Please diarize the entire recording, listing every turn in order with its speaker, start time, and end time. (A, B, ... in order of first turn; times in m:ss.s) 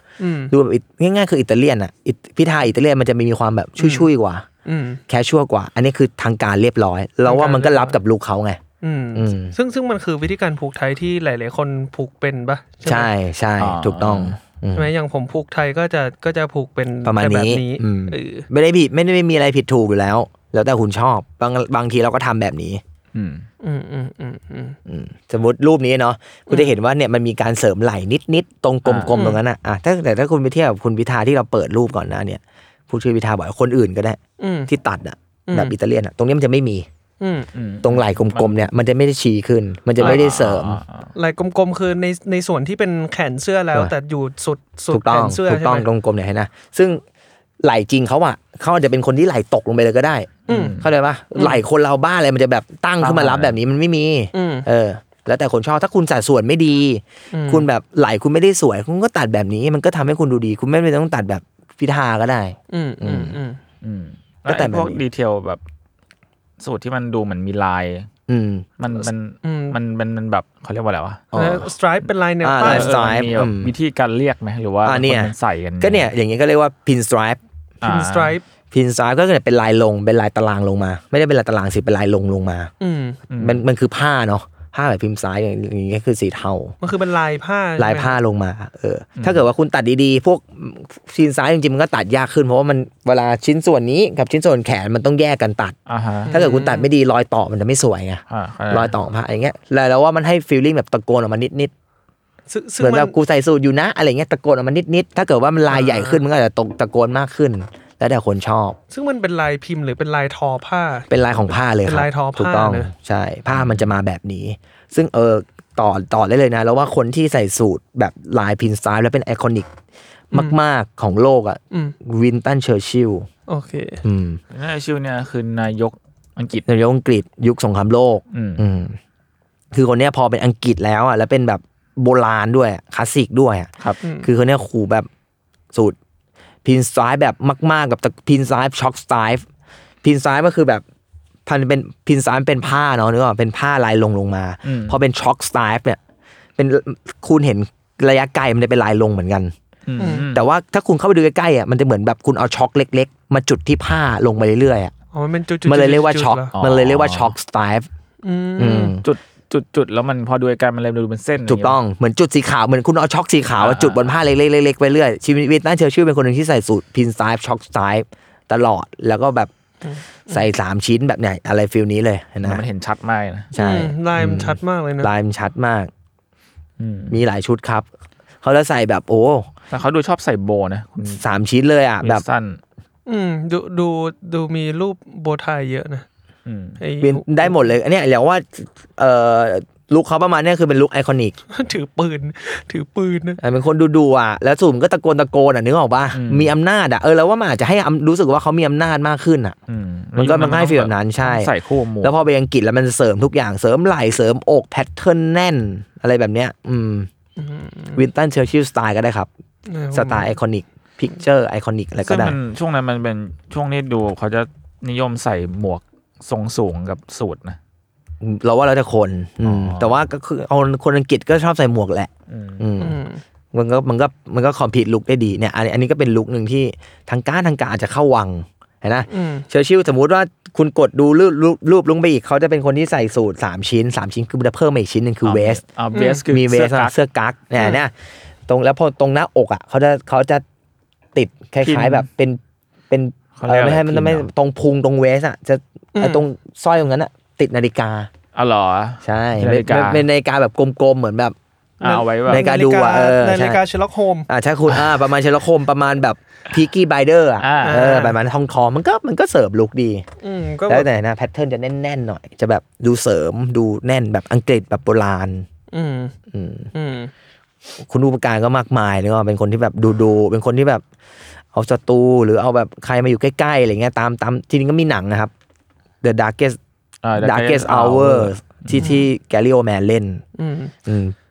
0:00.2-0:00.5 A
0:00.5-0:04.4 B
0:03.8-0:04.1 A
0:04.6-0:05.0 A
0:05.1-0:08.6 B
0:07.2-0:08.0 A
0:08.8-0:13.1 A
0:09.1-0:09.6 B
0:12.8-0:14.9 B
0:13.6-0:14.4 C
0:14.7-0:18.5 A
0:17.0-0:22.8 B
0:23.1-0:23.5 C
0:23.6-0:24.8 A
0:24.9-0:36.9 B
0:26.5-0:26.7 A
0:28.8-0:29.2 C
0:29.1-0:29.4 A
0:34.4-0:34.7 A
0:35.5-0:35.7 A
0:37.2-0:37.5 A
0:37.5-0:38.7 C
0:37.8-0:40.8 B
0:40.0-0:41.1 C
0:41.1-0:45.9 A
0:44.9-0:47.0 B
0:47.6-1:03.4 B
0:50.5-0:50.9 C
0:50.5-0:50.8 A
0:51.4-0:51.6 A
0:53.0-0:53.6 C
0:54.3-0:54.6 A
0:57.3-0:57.6 A
1:02.7-1:03.6 A
1:03.8-1:05.6 C
1:04.5-1:05.0 B
1:06.6-1:08.1 C
1:08.3-1:08.7 B
1:08.8-1:11.3 C
1:09.4-1:09.8 A
1:11.3-1:11.7 B
1:11.3-1:13.0 A
1:12.4-1:13.7 B
1:12.6-1:16.1 C
1:14.8-1:17.4 B
1:17.8-1:18.4 C
1:17.8-1:18.4 A
1:18.7-1:22.7 B
1:22.8-1:23.2 A
1:23.3-1:23.6 C
1:23.4-1:26.8 B
1:26.8-1:28.2 A
1:27.8-1:35.8 B
1:29.2-1:29.4 C
1:35.9-1:36.3 C
1:36.3-1:36.9 A
1:36.3-1:41.7 B
1:38.3-1:38.9 C
1:42.5-1:43.1 A
1:42.8-1:48.8 B
1:45.7-1:46.2 A
1:48.9-1:51.1 A
1:51.1-1:59.7 B
1:51.8-1:52.9 A
1:53.5-1:53.9 C
2:00.3-2:03.3 B
2:01.7-2:02.0 A
2:03.5-2:04.0 A
2:04.0-2:04.4 B
2:04.5-2:06.6 C
2:06.6-2:09.0 B
2:08.3-2:08.6 C
2:09.7-2:13.7 B
2:14.0-2:14.3 A
2:14.2-2:15.1 B
2:16.6-2:19.4 B
2:20.0-2:20.8 B
2:21.5-2:26.0 B
2:24.6-2:25.0 C
2:26.6-2:29.5 B
2:29.9-2:30.4 C
2:30.0-2:30.3 A
2:30.3-2:34.9 B
2:35.1-2:36.5 A
2:35.6-2:37.9 B
2:36.6-2:37.3 C
2:38.2-2:39.0 A
2:38.6-2:39.0 B
2:39.0-2:41.8 C
2:41.5-2:49.5 B
2:43.6-2:44.1 C
2:49.8-2:50.4 A
2:50.3-2:52.6 B
2:52.4-2:53.5 C
2:53.5-2:55.9 B
2:53.6-2:55.1 A
2:56.8-2:57.2 C
2:57.1-2:57.9 B
2:58.4-2:59.5 B
2:59.7-3:01.2 C
3:01.1-3:02.2 B
3:02.0-3:02.6 C
3:03.1-3:06.1 A
3:06.5-3:06.8 C
3:06.8-3:07.7 A
3:07.0-3:11.4 B
3:11.5-3:13.4 A
3:13.4-3:19.6 B
3:16.1-3:16.5 C
3:19.7-3:22.1 C
3:20.2-3:27.1 B
3:27.4-3:28.0 A
3:28.0-3:29.3 B
3:29.7-3:30.3 A
3:29.9-3:32.4 B
3:32.0-3:37.6 C
3:38.2-3:43.0 B
3:39.4-3:39.9 C
3:42.3-3:42.6 C
3:42.8-3:43.2 A
3:43.5-3:55.6 B
3:49.1-3:49.4 A
3:55.2-3:56.9 C
3:55.9-3:56.2 A
3:56.3-3:57.9 B
3:58.5-4:00.4 B
4:01.1-4:08.1 B
4:01.6-4:02.1 C
4:03.4-4:04.3 C
4:06.0-4:06.2 A
4:08.4-4:10.0 C
4:09.0-4:11.4 B
4:11.8-4:12.5 C
4:11.8-4:14.3 A
4:12.3-4:13.6 B
4:14.3-4:20.0 B
4:17.4-4:17.8 C
4:17.6-4:18.2 A
4:20.2-4:20.9 A
4:20.7-4:25.5 B
4:25.7-4:26.2 A
4:26.3-4:26.7 B
4:26.7-4:27.1 A
4:27.8-4:30.8 B
4:31.5-4:35.3 B
4:36.0-4:36.6 B
4:37.0-4:38.9 C
4:37.2-4:40.2 B
4:38.8-4:39.0 A
4:40.4-4:40.7 A
4:40.9-4:41.1 B